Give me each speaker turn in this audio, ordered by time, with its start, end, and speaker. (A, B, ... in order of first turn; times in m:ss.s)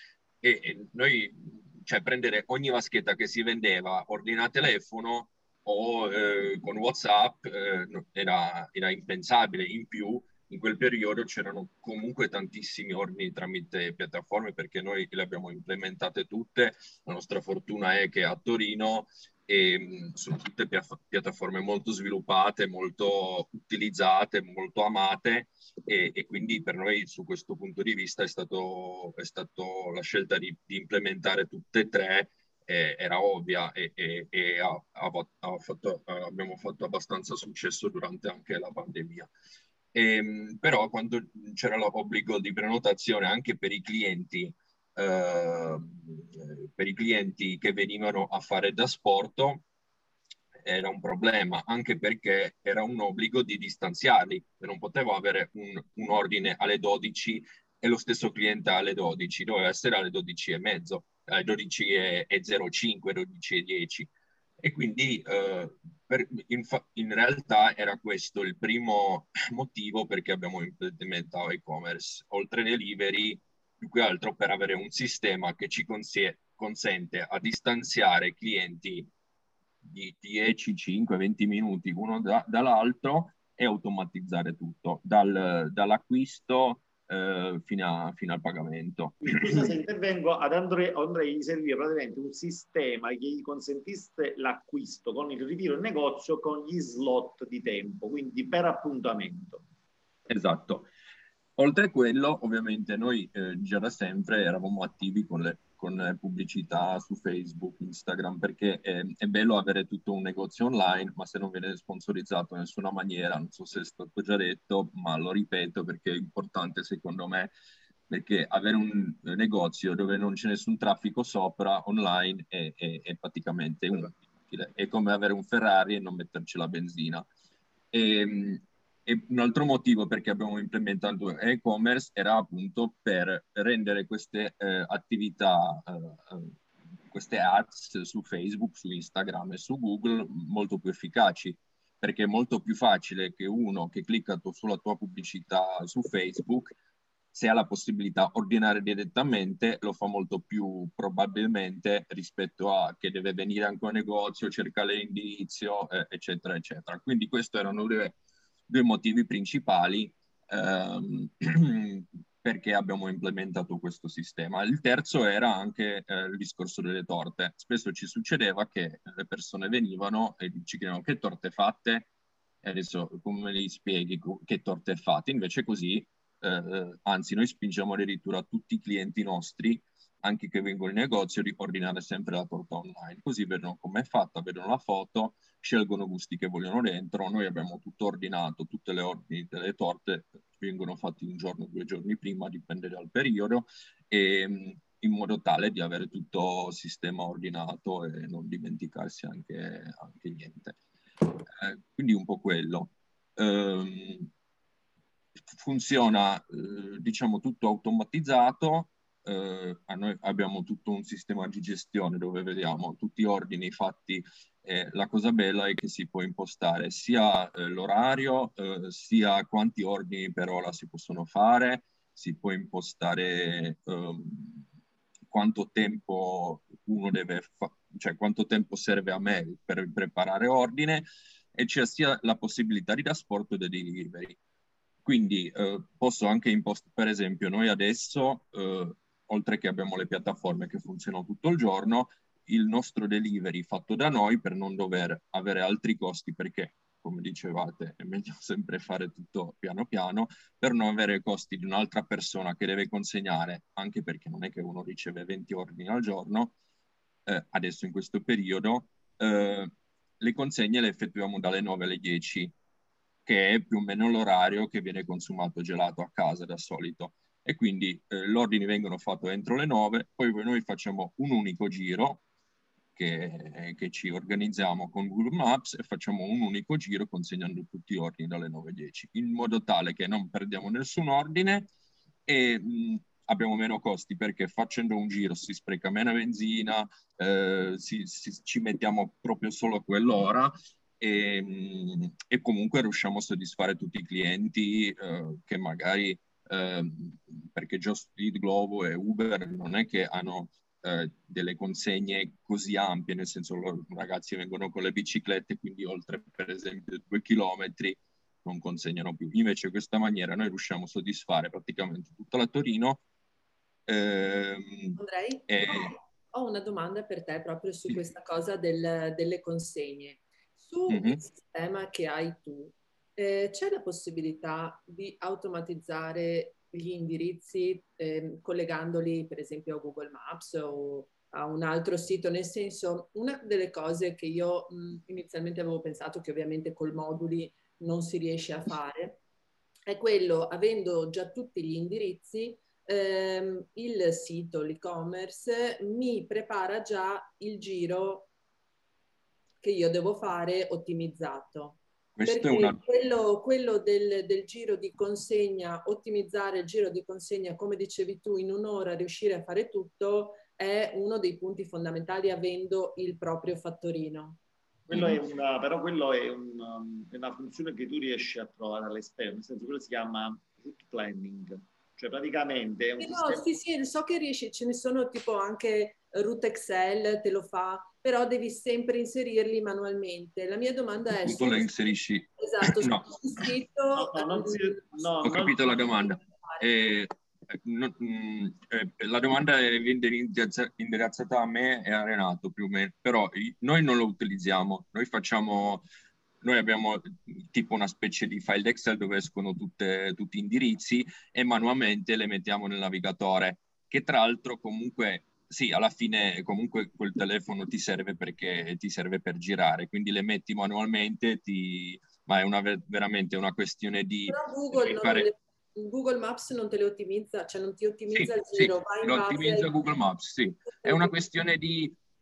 0:00.4-0:39.3 A
0:39.9-0:49.6 A
0:50.6-1:19.1 A
1:19.8-1:29.6 A
1:29.2-1:39.6 B
1:40.3-1:40.9 A
1:41.6-1:57.5 A
1:58.1-2:07.3 A
2:07.9-2:16.5 A
2:17.1-2:26.8 A
2:27.3-2:38.2 A
2:38.7-2:52.1 A
2:52.6-3:20.8 A
3:21.4-3:24.3 A
3:25.6-3:44.6 A
3:45.3-3:54.4 A
3:55.0-4:16.5 A
4:17.2-4:22.5 A
4:23.2-4:32.2 A
4:33.0-4:41.7 A
4:42.2-5:13.0 A
5:13.9-5:15.9 A
5:15.0-5:39.2 C
5:20.9-5:21.2 A
5:39.9-5:48.3 C
5:49.6-6:04.4 C
5:52.2-5:52.8 A
6:04.9-6:13.4 B
6:04.9-6:05.2 A
6:13.0-6:26.6 C
6:21.2-6:23.2 A
6:23.9-6:25.8 B
6:25.2-6:35.8 A
6:36.4-6:55.3 A
6:54.3-6:59.7 C
6:58.1-7:02.0 A
7:00.8-7:01.1 C